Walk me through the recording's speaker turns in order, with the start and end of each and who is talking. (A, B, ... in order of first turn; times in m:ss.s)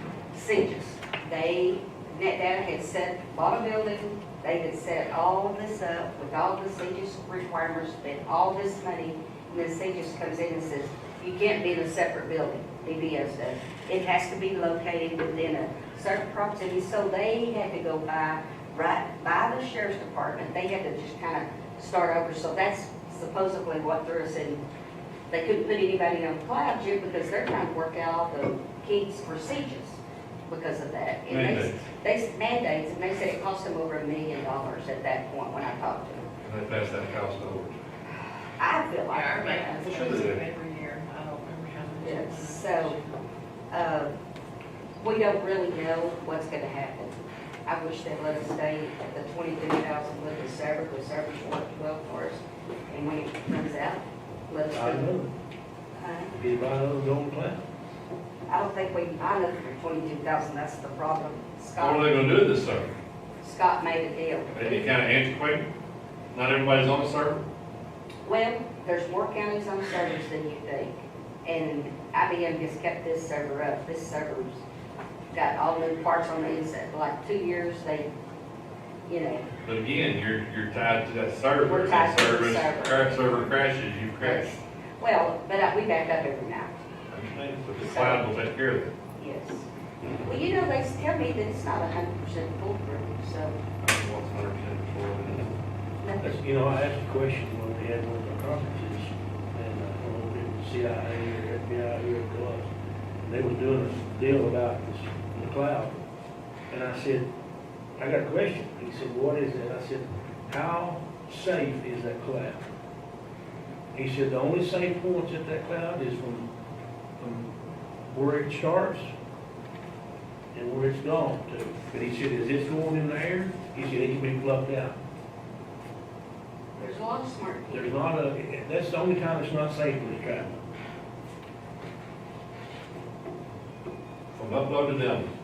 0:00.3-0:24.6 A
0:25.3-0:36.3 A
0:31.3-0:31.8 B
0:36.4-0:37.8 B
0:38.1-0:40.2 A
0:39.1-0:43.2 C
0:39.8-0:40.4 B
0:42.0-0:43.0 A
0:43.7-0:44.1 A
0:45.0-0:47.2 A
0:47.7-0:55.1 A
0:54.7-0:55.3 D
0:56.0-0:56.3 A
0:56.3-0:57.6 D
0:58.5-1:02.2 A
1:01.8-1:02.9 B
1:03.4-1:04.9 A
1:04.5-1:05.7 B
1:06.3-1:07.4 B
1:08.2-1:14.6 A
1:15.3-1:18.1 A
1:19.1-1:19.4 A
1:19.6-1:24.6 B
1:21.6-1:23.5 A
1:24.2-1:26.8 A
1:27.1-1:28.9 B
1:27.8-1:28.3 A
1:29.2-1:29.7 A
1:30.2-1:33.6 A
1:33.8-1:35.5 B
1:36.0-1:36.4 A
1:36.2-1:42.7 D
1:43.2-1:46.0 D
1:46.7-1:47.3 D
1:48.0-1:52.7 D
1:54.0-1:56.5 D
1:57.2-1:57.5 D
1:58.1-1:59.1 D
2:00.5-2:05.0 D
2:06.8-2:07.9 A
2:07.7-2:10.7 D
2:14.3-2:15.3 B